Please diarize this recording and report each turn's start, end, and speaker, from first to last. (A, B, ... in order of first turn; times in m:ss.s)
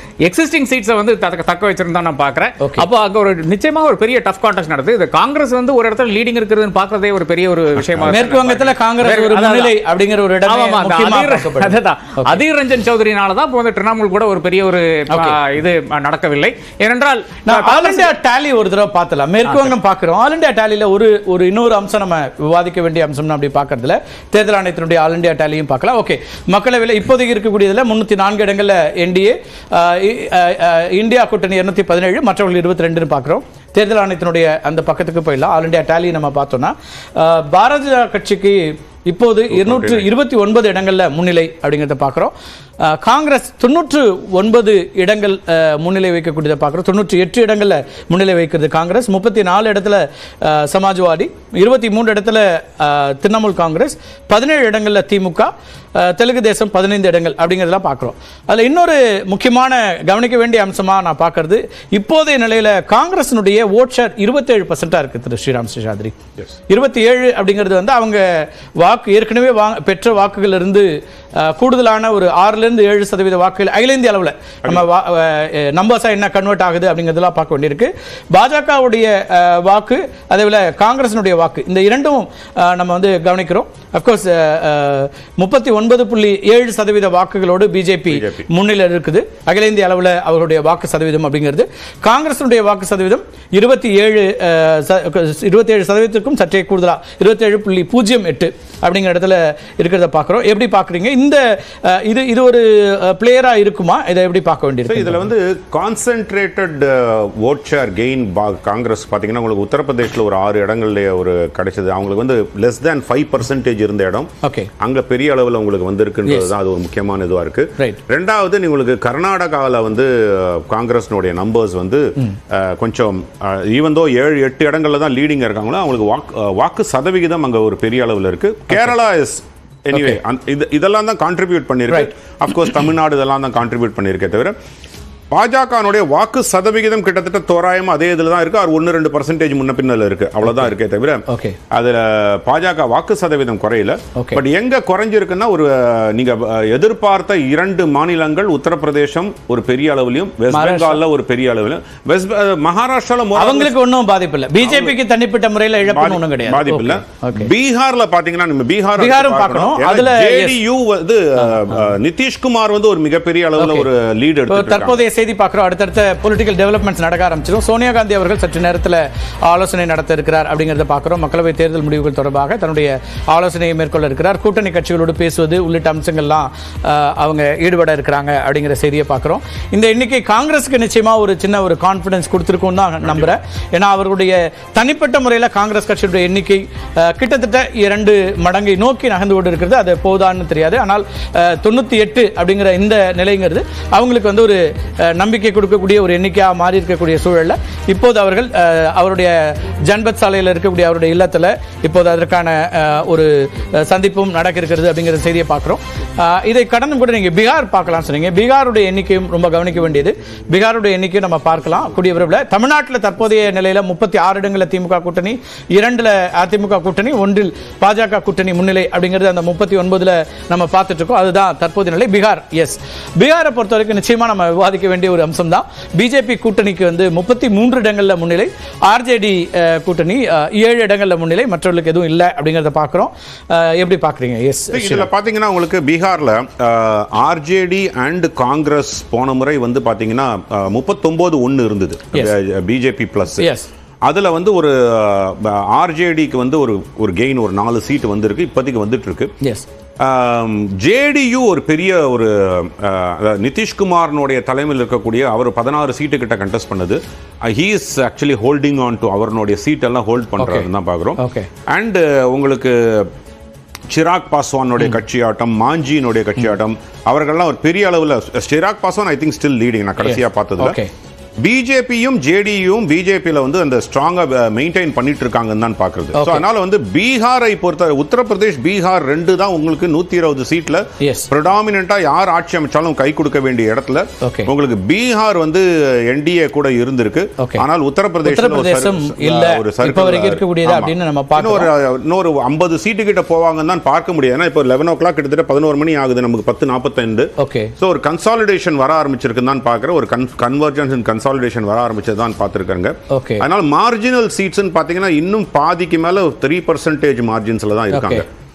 0:00.2-0:09.7 A
0:07.8-0:08.1 B
0:08.1-0:12.4 C
0:10.4-0:18.1 A
0:15.1-0:15.4 C
0:17.4-0:42.3 C
0:39.5-0:40.1 B
0:42.8-1:06.1 C
1:06.7-1:45.2 C
1:28.1-1:28.5 B
1:44.9-2:14.5 B
1:54.4-1:54.7 C
2:15.3-2:33.8 B
2:21.3-2:21.6 C
2:30.5-2:31.0 C
2:33.4-2:37.5 C
2:34.6-2:35.0 B
2:35.9-2:45.0 B
2:39.0-2:40.6 C
2:43.6-2:43.9 C
2:44.5-3:55.1 C
3:03.0-3:03.3 B
3:54.7-4:03.5 B
4:03.4-4:03.7 C
4:04.0-4:09.3 B
4:10.0-4:23.1 B
4:20.4-4:20.7 C
4:21.2-4:21.5 C
4:23.9-4:30.8 B
4:30.0-4:30.9 C
4:31.4-5:08.2 B
4:36.1-4:36.4 C
4:41.0-4:41.3 C
4:44.2-4:44.5 C
4:48.2-4:51.7 C
4:57.4-4:57.7 C
5:03.1-5:03.4 C
5:07.9-5:08.2 C